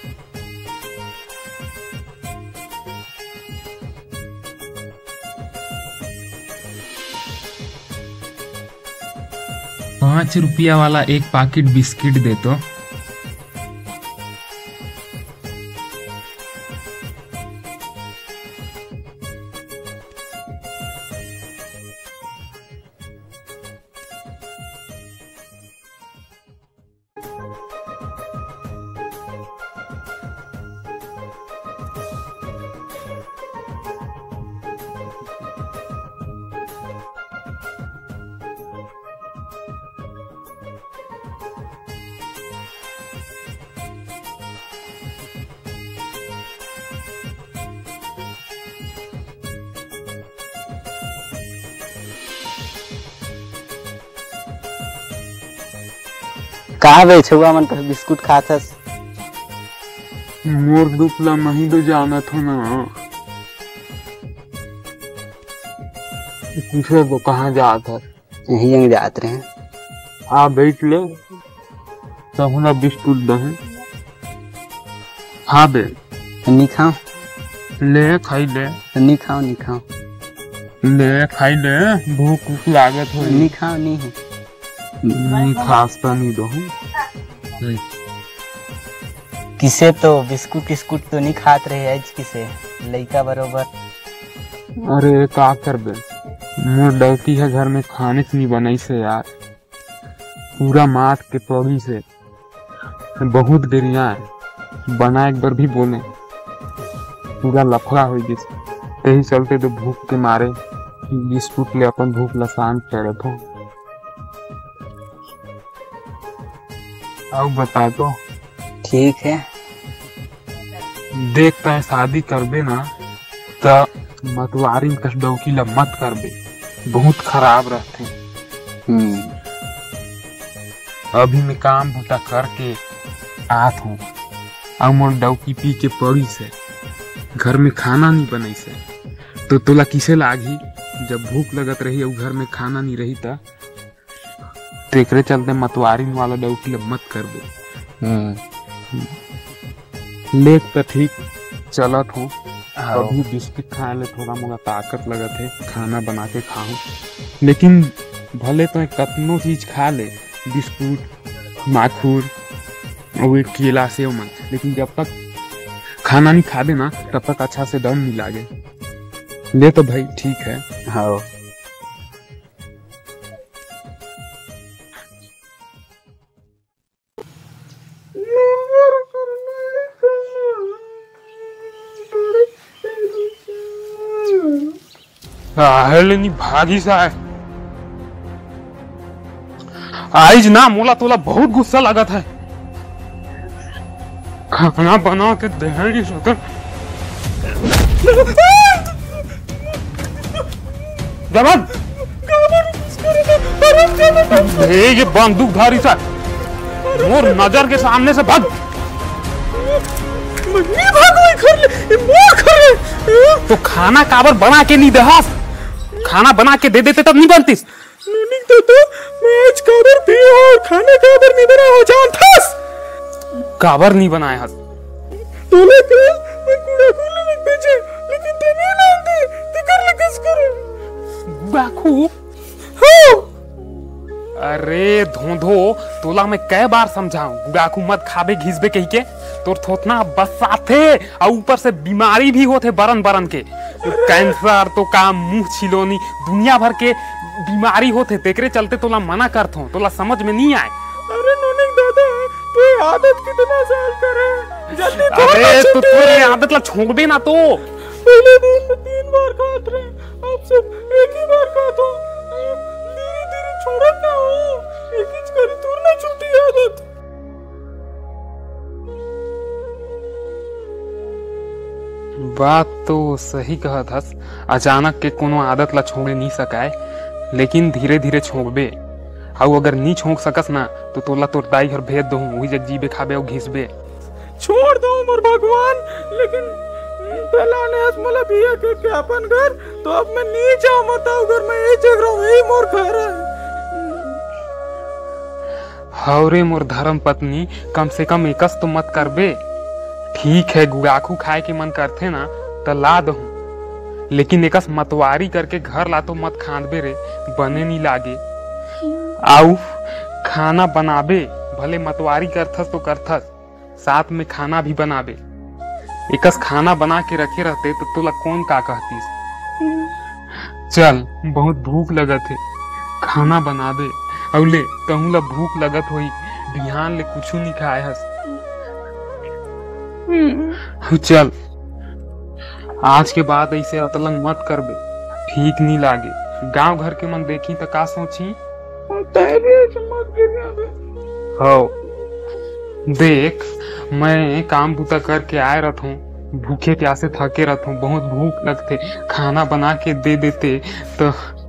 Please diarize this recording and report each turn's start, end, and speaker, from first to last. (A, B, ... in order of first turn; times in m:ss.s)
0:10.0-0:12.6 A
0:56.8-0:58.8 B
1:00.4-1:02.8 A
1:06.7-1:08.0 A
1:08.5-1:09.4 B
1:10.3-1:11.1 A
1:12.4-1:13.6 A
1:15.5-1:15.9 A
1:16.4-1:16.9 B
1:17.8-1:18.8 A
1:18.9-1:19.8 B
1:20.8-1:23.5 A
1:23.2-1:24.2 B
1:25.0-1:25.5 B
1:25.1-1:26.7 A
1:29.6-1:33.7 B
1:34.9-1:36.0 A
1:36.6-1:39.3 A
1:40.6-1:42.0 A
1:43.2-1:44.3 A
1:44.9-1:46.0 A
1:47.4-1:48.5 A
1:49.0-1:50.5 A
1:51.1-1:53.4 A
1:57.3-1:58.1 A
1:58.8-1:59.4 B
2:01.1-2:02.8 A
2:03.6-2:06.3 A
2:06.9-2:08.1 A
2:08.9-2:09.3 B
2:11.1-2:12.8 A
2:13.5-2:14.0 A
2:14.8-2:16.5 A
2:17.4-2:18.8 A
2:19.5-2:23.4 A
2:24.9-2:27.5 A
2:28.0-2:28.4 B
2:30.3-2:31.2 A
2:31.7-2:32.3 A
2:32.8-2:33.2 B
2:32.9-2:36.8 A
2:37.4-2:41.1 A
2:41.7-2:42.3 A
2:43.2-2:45.1 A
2:46.0-2:48.5 A
2:49.5-2:50.6 A
2:50.9-2:51.3 B
2:58.2-3:00.8 C
3:02.0-3:04.7 C
3:05.6-3:07.1 A
3:10.1-3:12.2 A
3:14.5-3:16.4 A
3:18.1-3:18.8 C
3:21.3-3:21.7 A
3:22.0-3:24.7 C
3:24.3-3:26.0 A
3:26.8-3:27.8 C
3:26.9-3:28.5 A
3:29.5-3:33.4 C
3:33.5-3:35.3 A
3:36.0-3:37.6 A
3:38.0-3:42.6 C
3:43.6-3:44.6 A
3:45.5-3:50.6 C
3:51.3-3:52.1 A
3:52.8-3:53.3 C
3:54.4-4:10.7 A
4:03.8-4:04.4 C
4:11.1-4:16.4 C
4:15.0-4:17.6 A
4:18.0-4:26.8 C
4:32.2-4:36.7 A
4:37.3-4:38.7 A
4:39.4-4:43.7 A
4:44.4-4:54.2 C
4:56.0-4:59.3 A
5:00.1-5:03.3 A
5:04.1-5:08.2 A
5:09.2-5:09.6 A
5:10.2-5:13.3 A
5:13.8-5:15.2 A
5:16.1-5:19.1 A
5:20.7-5:22.4 A
5:23.0-5:28.1 A
5:30.1-5:30.6 C
5:30.8-5:31.3 A
5:32.8-5:38.4 A
5:38.9-5:40.7 C
5:41.4-5:41.7 A
5:42.9-5:51.1 A